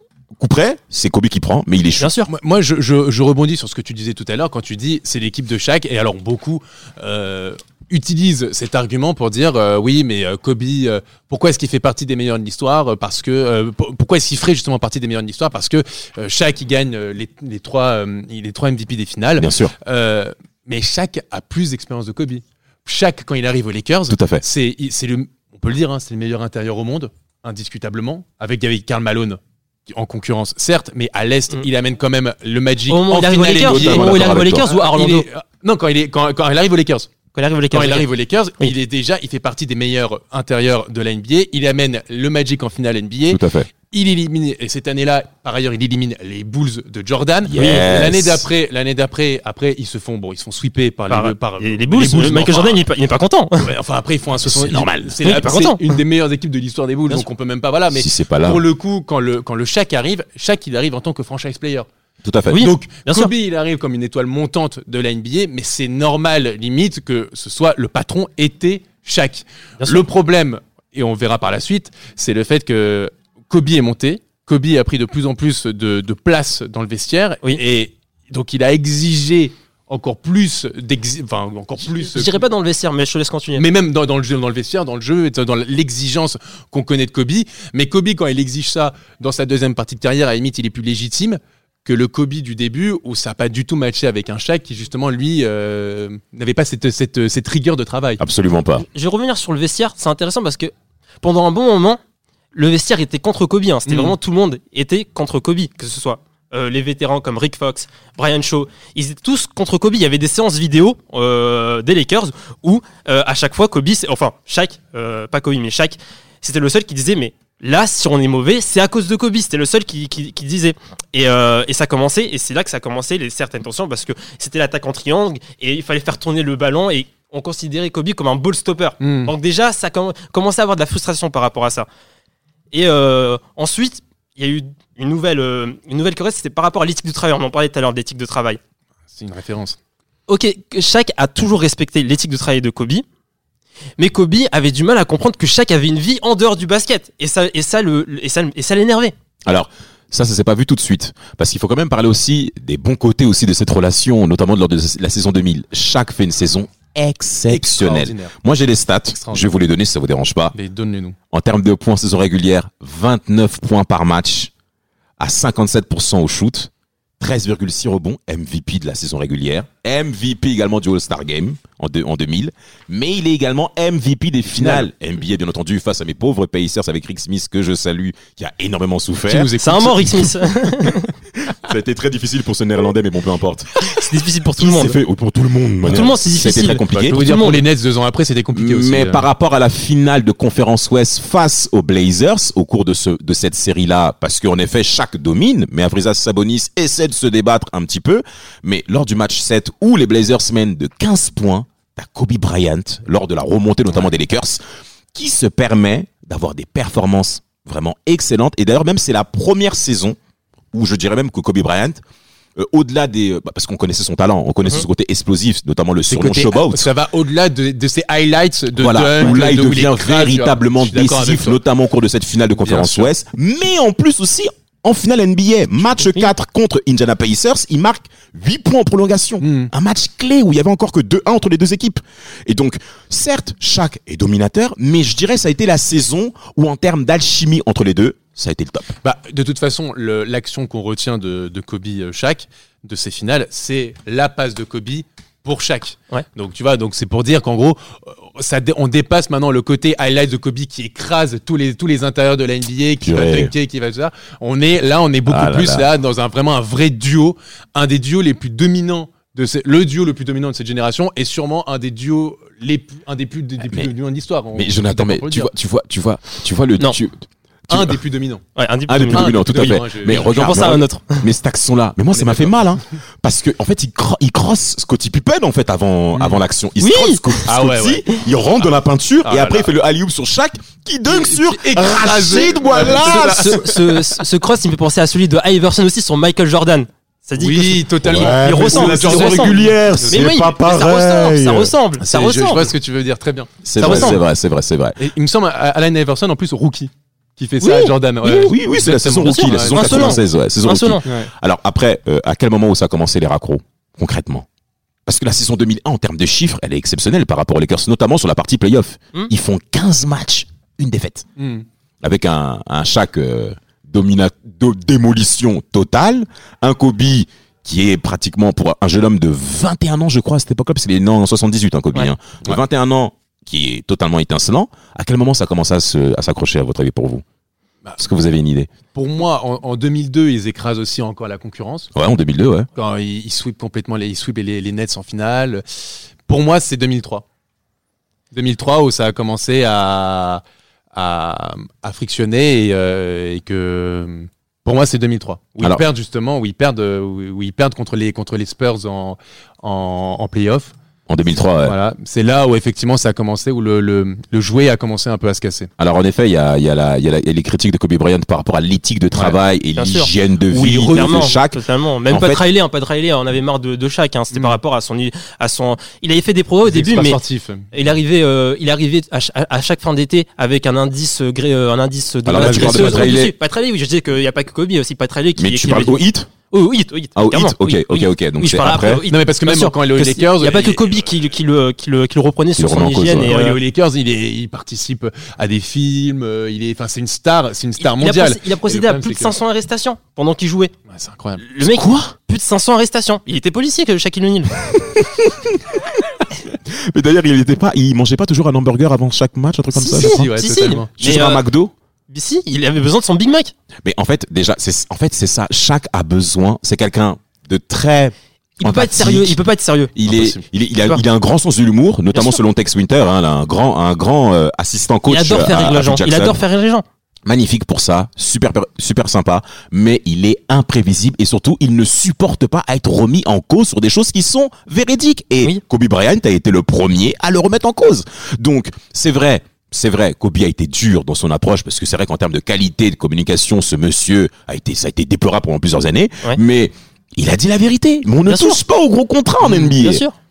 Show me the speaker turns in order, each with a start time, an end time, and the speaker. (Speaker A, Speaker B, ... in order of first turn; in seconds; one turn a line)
Speaker A: 0.4-2.1
Speaker B: 2.0-2.3
Speaker C: 2.3-37.1
Speaker A: 19.4-19.7
Speaker A: 24.1-24.4
Speaker B: 32.9-35.3
Speaker A: 33.5-34.7
Speaker B: 37.3-38.1
Speaker C: 37.7-52.8
Speaker A: 43.3-43.7
Speaker A: 47.5-48.5
Speaker B: 47.6-47.9
Speaker B: 51.1-53.7
Speaker C: 53.6-61.9
Speaker A: 54.4-55.2
Speaker B: 55.2-55.8
Speaker A: 57.9-58.6
Speaker A: 62.2-62.7
Speaker B: 62.5-63.3
Speaker C: 62.6-82.5
Speaker B: 82.1-83.6
Speaker C: 83.6-98.2
Speaker A: 98.2-98.8
Speaker B: 98.8-102.0
Speaker B: 102.5-131.9
Speaker C: 103.9-104.2
Speaker C: 129.0-129.3
Speaker B: 132.7-138.6
Speaker C: 139.1-139.8
Speaker B: 140.3-143.1
Speaker B: 144.0-149.2
Speaker A: 149.5-160.6
Speaker C: 157.5-158.4
Speaker C: 159.2-159.5
Speaker C: 160.6-161.2
Speaker A: 161.3-164.5
Speaker A: 165.2-179.5
Speaker C: 174.5-174.9
Speaker C: 179.3-181.0
Speaker B: 179.6-181.1
Speaker A: 181.4-183.7
Speaker B: 183.9-185.0
Speaker A: 184.6-187.3
Speaker B: 185.8-187.6
Speaker C: 186.5-189.2
Speaker A: 188.5-204.6
Speaker A: 205.1-210.2
Speaker A: 210.7-212.0
Speaker A: 212.6-216.9
Speaker C: 216.1-221.6
Speaker A: 218.8-238.9
Speaker C: 222.6-223.1
Speaker C: 229.4-229.7
Speaker C: 239.0-265.5
Speaker A: 253.0-253.5
Speaker A: 255.3-255.9
Speaker A: 264.6-268.0
Speaker C: 267.7-268.4
Speaker B: 268.6-271.2
Speaker A: 268.9-283.7
Speaker C: 269.1-270.7
Speaker C: 272.1-272.8
Speaker C: 276.1-276.4
Speaker B: 276.8-277.2
Speaker C: 277.5-278.1
Speaker C: 279.2-279.7
Speaker C: 281.1-284.0
Speaker B: 282.9-289.6
Speaker C: 287.4-290.3
Speaker A: 288.0-291.7
Speaker B: 290.1-292.6
Speaker C: 292.0-294.2
Speaker A: 293.6-295.0
Speaker B: 293.8-294.2
Speaker C: 295.0-300.2
Speaker B: 297.6-298.5
Speaker A: 298.4-304.5
Speaker B: 299.2-301.0
Speaker C: 301.1-301.3
Speaker A: 305.1-311.3
Speaker C: 311.4-311.6
Speaker A: 312.0-327.2
Speaker A: 328.0-328.7
Speaker C: 328.9-331.9
Speaker A: 331.9-332.7
Speaker C: 332.8-335.6
Speaker C: 336.3-337.2
Speaker C: 338.3-340.4
Speaker C: 340.9-350.7
Speaker A: 351.1-351.8
Speaker C: 351.6-355.7
Speaker A: 355.8-362.4
Speaker B: 359.8-367.2
Speaker C: 360.5-361.3
Speaker C: 364.3-364.6
Speaker C: 366.7-367.7
Speaker B: 367.7-383.6
Speaker A: 372.3-373.3
Speaker C: 372.4-373.0
Speaker A: 375.4-376.3
Speaker A: 377.2-379.0
Speaker C: 379.1-380.9
Speaker A: 382.6-383.3
Speaker C: 383.3-389.4
Speaker B: 387.8-390.7
Speaker C: 390.9-391.4
Speaker B: 391.4-394.6
Speaker A: 391.6-392.1
Speaker A: 394.7-396.0
Speaker A: 396.9-400.3
Speaker B: 399.8-401.4
Speaker C: 399.9-400.9
Speaker A: 400.9-401.7
Speaker B: 402.1-403.5
Speaker A: 403.8-409.4
Speaker B: 408.6-409.9
Speaker A: 409.9-416.4
Speaker C: 410.1-410.4
Speaker B: 412.1-412.4
Speaker B: 415.1-416.8
Speaker A: 417.3-440.0
Speaker B: 438.3-438.6
Speaker C: 439.4-439.8
Speaker B: 439.8-440.1